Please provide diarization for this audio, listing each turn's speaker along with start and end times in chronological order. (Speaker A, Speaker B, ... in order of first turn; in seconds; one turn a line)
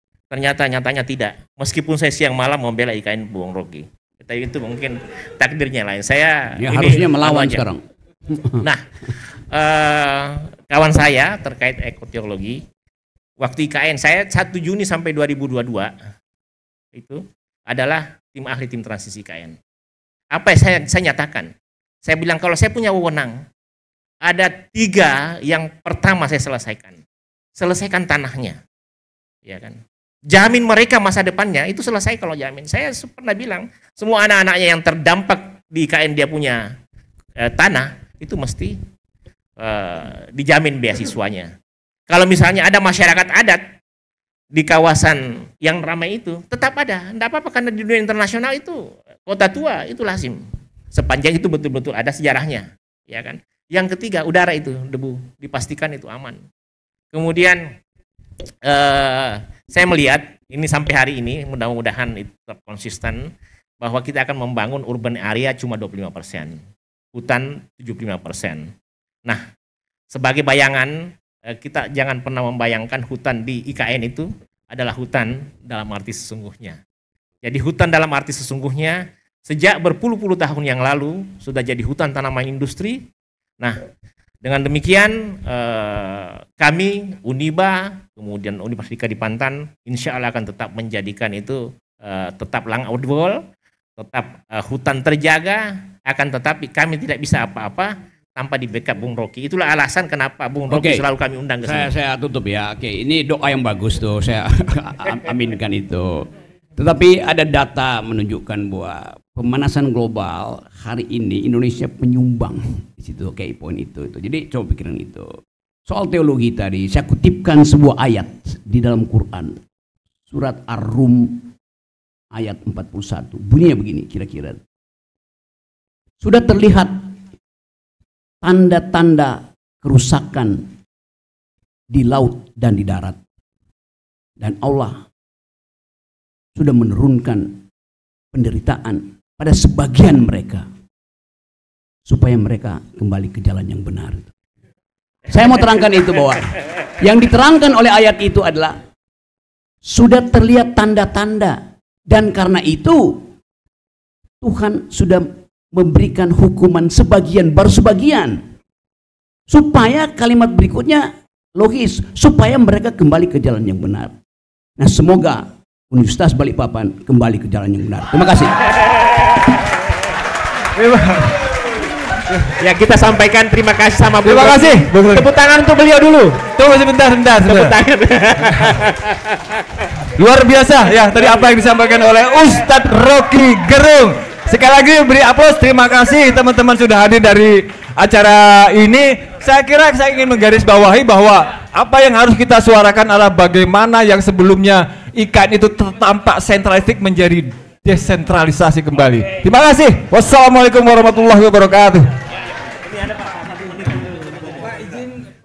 Speaker A: 0.3-7.7
Speaker B: 6.6-8.6
Speaker A: 8.6-12.6
Speaker A: 13.4-15.9
Speaker A: 16.9-19.6
Speaker A: 20.3-21.5
Speaker A: 22.1-23.4
Speaker A: 24.2-27.0
Speaker A: 27.6-28.6
Speaker A: 29.4-29.8
Speaker A: 30.3-36.6
Speaker A: 37.4-38.8
Speaker A: 39.6-41.5
Speaker A: 42.1-43.6
Speaker A: 44.5-50.4
Speaker A: 50.9-56.4
Speaker A: 57.1-57.6
Speaker A: 58.7-63.2
Speaker A: 63.8-66.6
Speaker A: 67.1-68.7
Speaker A: 70.1-70.9
Speaker A: 71.5-76.8
Speaker A: 77.4-83.0
Speaker A: 84.4-93.4
Speaker A: 94.0-101.9
Speaker B: 100.7-101.0
Speaker B: 101.6-115.3
Speaker B: 115.9-119.6
Speaker B: 120.3-121.5
Speaker B: 122.3-124.6
Speaker B: 126.2-127.0
Speaker B: 128.4-130.7
Speaker B: 131.9-133.2
Speaker B: 134.4-135.0
Speaker B: 136.6-137.6
Speaker B: 138.3-140.7
Speaker B: 142.1-144.3
Speaker B: 145.3-148.8
Speaker B: 149.9-151.6
Speaker B: 152.1-153.3
Speaker B: 154.4-158.4
Speaker B: 159.5-164.1
Speaker B: 164.8-168.6
Speaker C: 170.8-171.4
Speaker A: 172.6-176.4
Speaker C: 174.2-175.3
Speaker C: 176.5-177.7
Speaker A: 177.4-179.4
Speaker C: 180.2-202.1
Speaker A: 203.0-205.1